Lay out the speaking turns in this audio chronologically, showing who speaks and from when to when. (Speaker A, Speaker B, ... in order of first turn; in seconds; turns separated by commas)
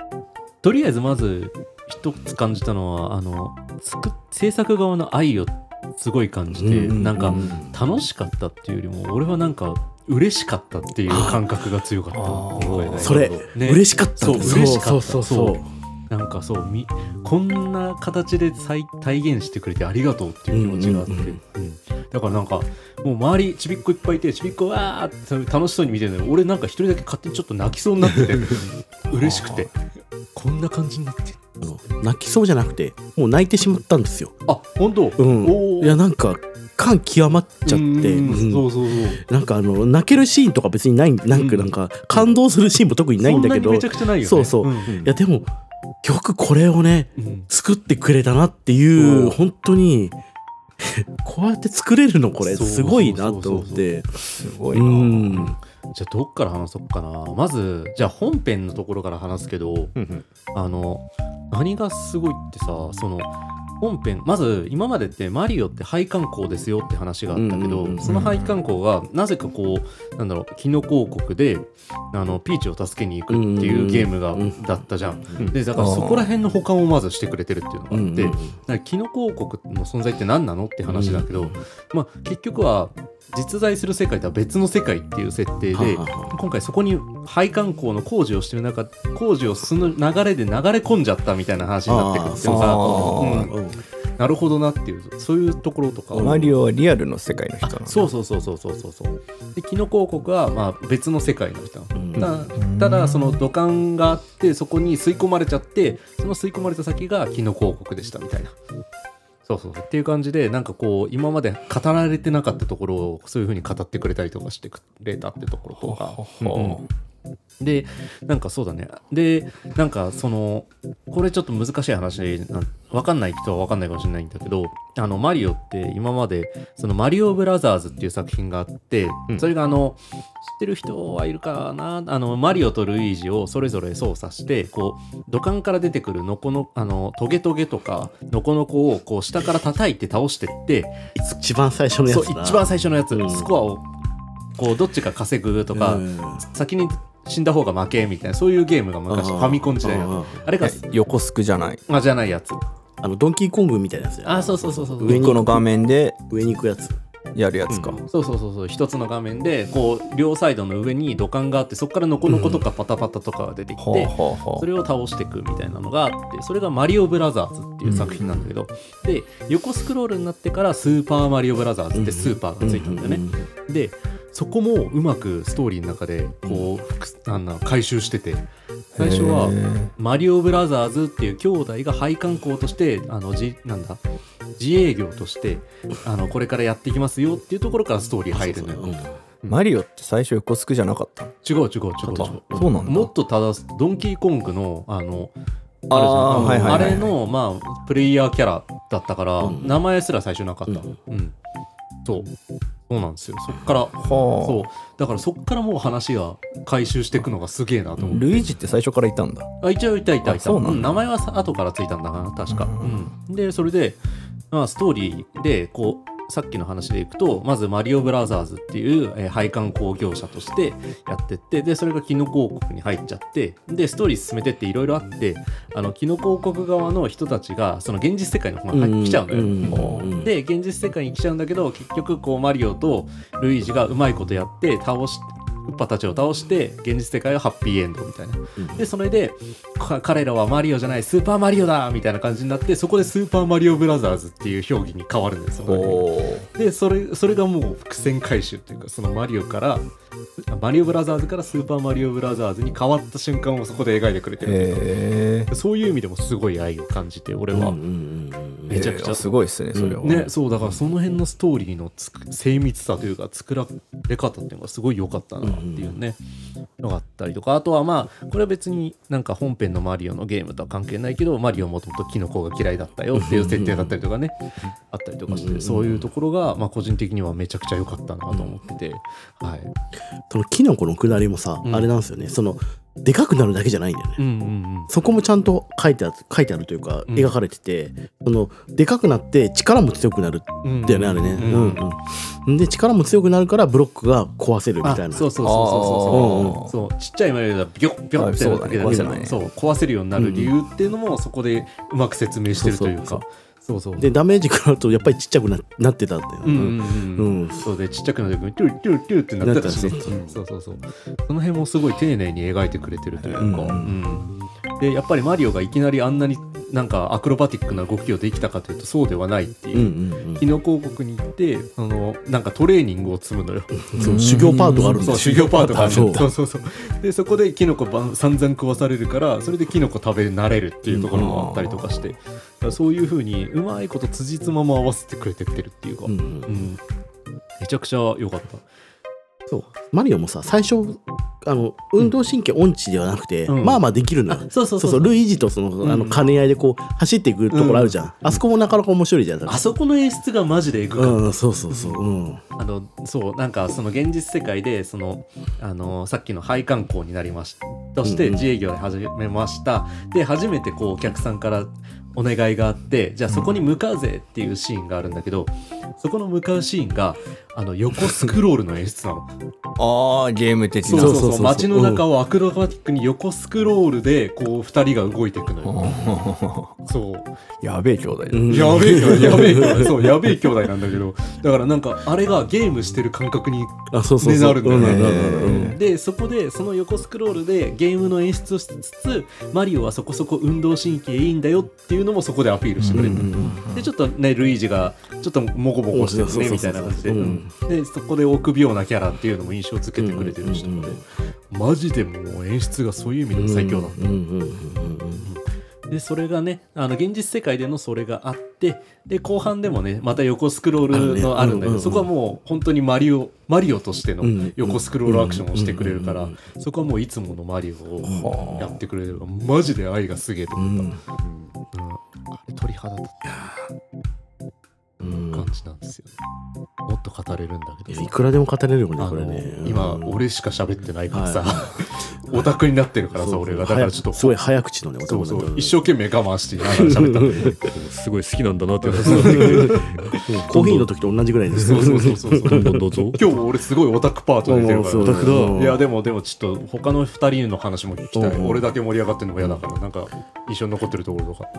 Speaker A: 0.6-29.7, Speaker B: 6.5-7.7, Speaker B: 11.1-11.4, Speaker C: 12.1-13.2, Speaker D: 12.6-13.4, Speaker B: 13.0-15.7, Speaker B: 20.5-21.4, Speaker C: 29.1-29.7, Speaker A: 30.4-31.4, Speaker B: 31.6-34.4, Speaker A: 34.5-36.0, Speaker B: 35.2-45.5, Speaker A: 37.6-39.2, Speaker A: 41.3-42.2, Speaker A: 43.2-45.1, Speaker B: 46.0-50.2, Speaker A: 47.2-47.5, Speaker A: 48.9-49.4, Speaker B: 50.8-55.6, Speaker A: 52.4-53.9, Speaker C: 54.3-55.5, Speaker A: 55.3-59.9, Speaker D: 60.0-60.2, Speaker A: 60.5-93.6, Speaker B: 67.4-68.2, Speaker C: 68.0-68.6, Speaker B: 73.3-74.6, Speaker C: 75.7-76.3, Speaker B: 77.9-78.5, Speaker B: 80.9-81.6, Speaker B: 85.7-86.4, Speaker B: 91.9-93.8, Speaker C: 92.4-93.5, Speaker A: 94.2-96.5, Speaker B: 96.1-96.5, Speaker C: 96.2-98.1, Speaker A: 97.6-108.6, Speaker B: 102.0-102.3, Speaker C: 102.6-103.4, Speaker A: 109.5-116.8, Speaker C: 115.8-116.9, Speaker A: 117.6-141.1, Speaker B: 141.2-143.5, Speaker A: 142.1-143.9, Speaker A: 144.6-150.9, Speaker B: 145.7-146.4, Speaker B: 149.1-150.5, Speaker C: 150.6-151.8, Speaker A: 151.9-152.6, Speaker B: 153.0-155.7, Speaker A: 154.2-155.5, Speaker C: 155.0-156.2, Speaker B: 156.3-157.0, Speaker C: 157.3-158.0, Speaker A: 157.7-184.0, Speaker B: 162.3-162.6, Speaker C: 163.8-164.7, Speaker C: 167.8-168.5, Speaker B: 171.9-173.5, Speaker C: 179.0-179.9, Speaker A: 184.6-189.6, Speaker B: 188.3-189.2, Speaker C: 189.5-191.4, Speaker A: 191.4-195.3, Speaker C: 192.1-193.1, Speaker B: 192.5-192.8, Speaker C: 195.9-197.2, Speaker A: 195.9-201.3, Speaker B: 196.3-197.0, Speaker B: 199.4-199.8, Speaker B: 200.7-200.9, Speaker A: 202.1-202.3, Speaker A: 202.9-208.5, Speaker C: 204.0-204.7, Speaker C: 208.1-209.5, Speaker A: 209.6-214.0, Speaker C: 210.2-211.0, Speaker C: 212.5-213.1, Speaker A: 214.5-249.9, Speaker B: 228.7-230.3, Speaker C: 229.7-230.1, Speaker B: 238.6-238.8, Speaker C: 245.6-246.5, Speaker A: 250.5-254.9, Speaker C: 254.4-255.5, Speaker A: 255.5-257.8, Speaker B: 257.5-258.8, Speaker A: 258.7-259.3, Speaker C: 258.7-260.3, Speaker B: 259.7-260.0, Speaker A: 260.0-266.2, Speaker B: 265.4-266.0, Speaker A: 266.8-279.7, Speaker B: 273.1-274.0, Speaker B: 275.3-276.1, Speaker B: 278.3-278.6, Speaker B: 280.3-284.2, Speaker A: 281.6-281.9, Speaker A: 284.2-284.9, Speaker B: 284.9-295.3, Speaker A: 287.1-287.3, Speaker A: 290.6-291.8, Speaker A: 294.8-304.1, Speaker C: 295.4-296.8, Speaker B: 296.1-296.6, Speaker C: 298.2-299.4, Speaker B: 298.8-299.1, Speaker B: 300.2-300.5, Speaker B: 302.5-303.2, Speaker B: 304.0-307.7, Speaker A: 306.4-323.8, Speaker B: 309.4-310.2, Speaker D: 310.1-310.4, Speaker B: 313.4-313.9, Speaker B: 319.7-320.4, Speaker B: 323.9-326.3, Speaker C: 323.9-326.2, Speaker A: 324.7-336.8, Speaker B: 330.9-331.4, Speaker C: 331.1-332.1, Speaker B: 336.1-336.6, Speaker A: 337.6-338.6, Speaker B: 339.5-349.6, Speaker A: 343.5-345.2, Speaker A: 345.8-346.2, Speaker A: 347.5-348.4, Speaker A: 349.5-352.0, Speaker B: 351.0-352.4, Speaker A: 352.6-369.3, Speaker B: 358.0-358.5, Speaker C: 363.3-363.6, Speaker C: 369.8-371.3, Speaker A: 370.9-376.0, Speaker B: 370.9-372.0, Speaker C: 375.6-376.8, Speaker A: 376.9-377.3, Speaker C: 377.6-379.9, Speaker B: 378.3-380.1, Speaker A: 378.5-404.0, Speaker B: 383.9-385.8, Speaker C: 384.7-385.8, Speaker C: 392.8-393.9, Speaker B: 392.9-393.6, Speaker B: 395.9-397.5, Speaker B: 400.0-401.0, Speaker B: 403.3-405.3, Speaker A: 405.2-420.9, Speaker B: 410.9-412.1, Speaker B: 414.2-416.4, Speaker B: 418.0-418.8, Speaker C: 418.1-418.8, Speaker B: 420.6-421.0, Speaker D: 421.2-421.5, Speaker A: 421.7-423.7, Speaker B: 425.0-425.5, Speaker A: 425.3-426.2, Speaker A: 426.9-428.2, Speaker B: 427.9-430.2, Speaker A: 429.0-434.4, Speaker B: 431.1-432.4, Speaker B: 433.1-435.8, Speaker A: 435.1-437.5, Speaker B: 436.7-437.5, Speaker D: 437.3-440.9, Speaker A: 438.8-439.9, Speaker B: 439.1-439.8, Speaker B: 440.5-442.8, Speaker A: 441.5-451.5, Speaker D: 442.5-443.2, Speaker B: 444.5-445.8, Speaker D: 445.0-445.8, Speaker B: 448.1-448.7